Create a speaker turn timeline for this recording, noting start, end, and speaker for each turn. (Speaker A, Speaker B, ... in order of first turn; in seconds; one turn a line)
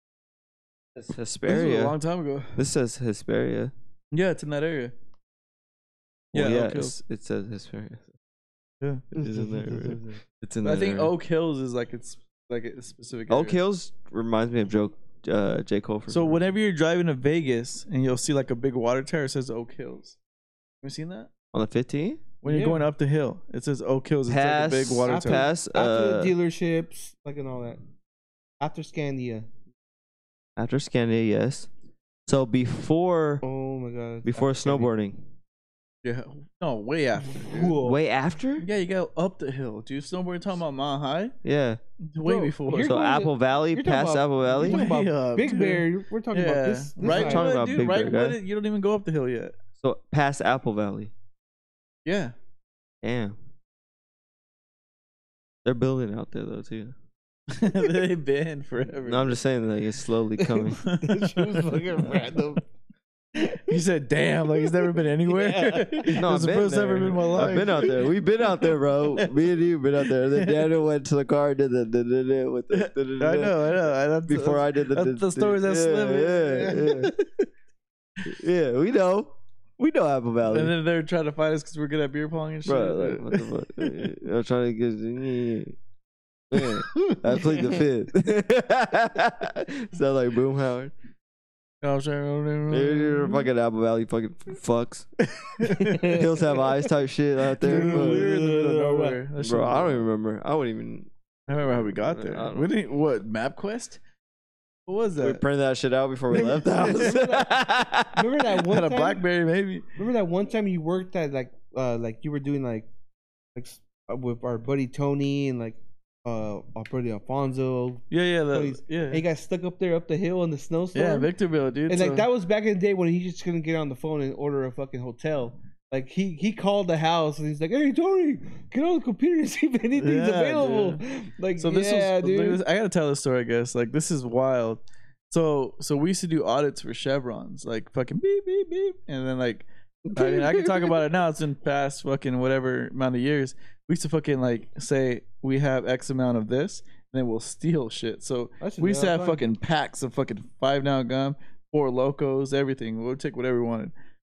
Speaker A: 0.9-1.9
Speaker B: 1.4-2.6
Speaker A: 2.5-3.7
Speaker B: 4.1-4.9
Speaker A: 6.3-8.1
Speaker B: 6.3-7.0
Speaker B: 8.8-9.1
Speaker C: 9.1-10.2
Speaker A: 9.1-11.1
Speaker B: 10.6-13.6
Speaker A: 13.3-16.4
Speaker B: 16.1-20.1
Speaker B: 20.8-21.3
Speaker A: 21.5-22.2
Speaker B: 22.4-25.4
Speaker C: 22.4-22.8
Speaker A: 24.3-26.3
Speaker C: 25.1-27.8
Speaker C: 28.6-29.5
Speaker A: 30.6-31.7
Speaker A: 32.3-33.4
Speaker C: 33.4-34.9
Speaker A: 34.2-35.2
Speaker B: 36.0-37.7
Speaker C: 37.4-38.0
Speaker A: 37.8-38.6
Speaker B: 38.6-41.3
Speaker A: 41.4-41.8
Speaker B: 42.1-43.0
Speaker C: 42.2-47.5
Speaker A: 42.8-44.9
Speaker B: 44.6-49.5
Speaker A: 47.0-48.4
Speaker A: 49.8-51.1
Speaker B: 52.0-52.3
Speaker A: 53.0-53.4
Speaker A: 55.6-56.9
Speaker B: 57.5-59.4
Speaker A: 59.1-60.8
Speaker C: 60.5-62.6
Speaker B: 60.7-62.2
Speaker C: 63.4-63.8
Speaker B: 63.6-69.3
Speaker C: 64.6-66.2
Speaker A: 66.0-73.7
Speaker B: 70.0-70.7
Speaker B: 72.7-77.3
Speaker A: 74.3-77.1
Speaker A: 78.2-80.7
Speaker B: 80.5-83.9
Speaker A: 82.7-85.8
Speaker A: 86.5-90.9
Speaker B: 91.8-93.5
Speaker A: 92.7-95.1
Speaker B: 95.3-96.2
Speaker C: 95.6-96.6
Speaker A: 96.1-98.3
Speaker C: 97.6-99.2
Speaker B: 97.6-100.0
Speaker A: 99.4-102.7
Speaker B: 101.5-104.0
Speaker B: 104.9-105.4
Speaker A: 105.2-108.4
Speaker C: 106.3-109.2
Speaker B: 108.6-109.9
Speaker C: 110.0-112.9
Speaker C: 113.5-121.3
Speaker B: 118.1-119.2
Speaker B: 120.9-122.3
Speaker C: 121.9-132.6
Speaker B: 130.0-131.0
Speaker B: 131.6-153.9
Speaker A: 140.1-140.9
Speaker C: 148.6-149.4